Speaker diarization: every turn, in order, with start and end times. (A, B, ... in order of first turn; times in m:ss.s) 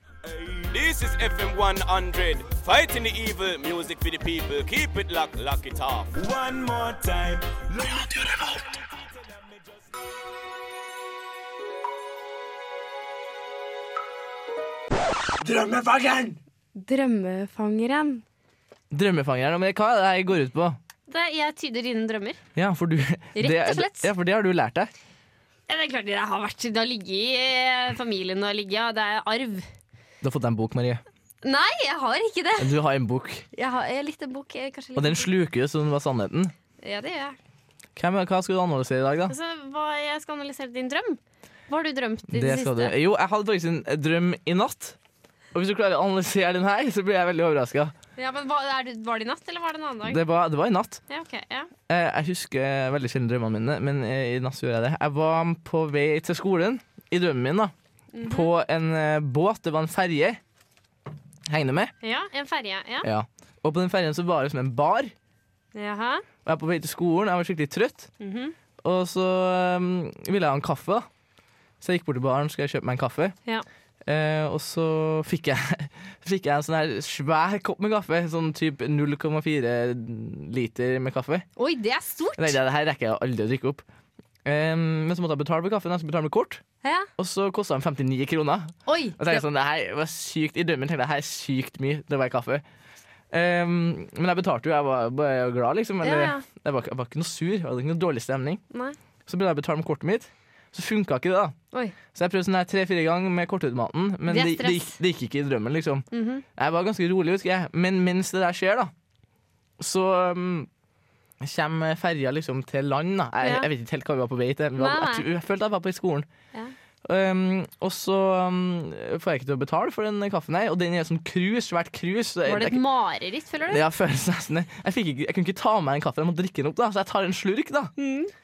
0:00.3-0:08.3 A
0:15.4-0:16.4 B
0:16.8-0:18.2 C
0:18.9-0:20.8 B
0:21.1-0:22.4 C
0:22.5-0:24.9 B
0:23.4-0:24.1 C
0:25.7-0:29.6 C
0:30.2-0:31.0 B
0:31.4-0:32.7 C
0:32.6-0:33.4 B
0:33.5-0:35.3 C
0:35.0-0:36.5 B
0:36.8-0:37.4 C
0:38.0-0:39.4 B
0:39.3-0:42.9 C
0:42.3-0:45.0 B
0:45.5-0:47.9 B
0:48.2-0:50.2 C
0:50.1-0:51.0 B
0:51.1-0:51.7 C
0:51.9-0:57.7 B
0:58.1-0:58.5 C
0:58.2-1:00.4 B
1:01.5-1:01.9 B
1:02.0-1:03.1 C
1:03.0-1:05.1 B
1:05.8-1:06.2 C
1:06.4-1:08.1 B
1:08.2-1:08.5 C
1:08.8-1:11.0 B
1:11.8-1:13.4 B
1:14.0-1:21.4 B
1:21.6-1:22.6 C
1:22.4-1:23.8 B
1:24.4-1:26.6 B
1:26.8-1:27.1 C
1:27.2-1:32.6 B
1:28.9-1:29.4 C
1:33.3-1:38.6 B
1:36.0-1:36.4 C
1:39.2-1:41.5 B
1:42.1-1:46.0 B
1:44.3-1:45.0 C
1:46.1-1:46.4 C
1:46.6-1:48.9 B
1:49.8-1:50.7 B
1:51.4-1:56.3 B
1:53.4-1:53.7 C
1:54.8-1:55.2 C
1:57.0-2:02.8 B
2:02.4-2:03.8 C
2:03.7-2:07.9 B
2:08.0-2:08.3 C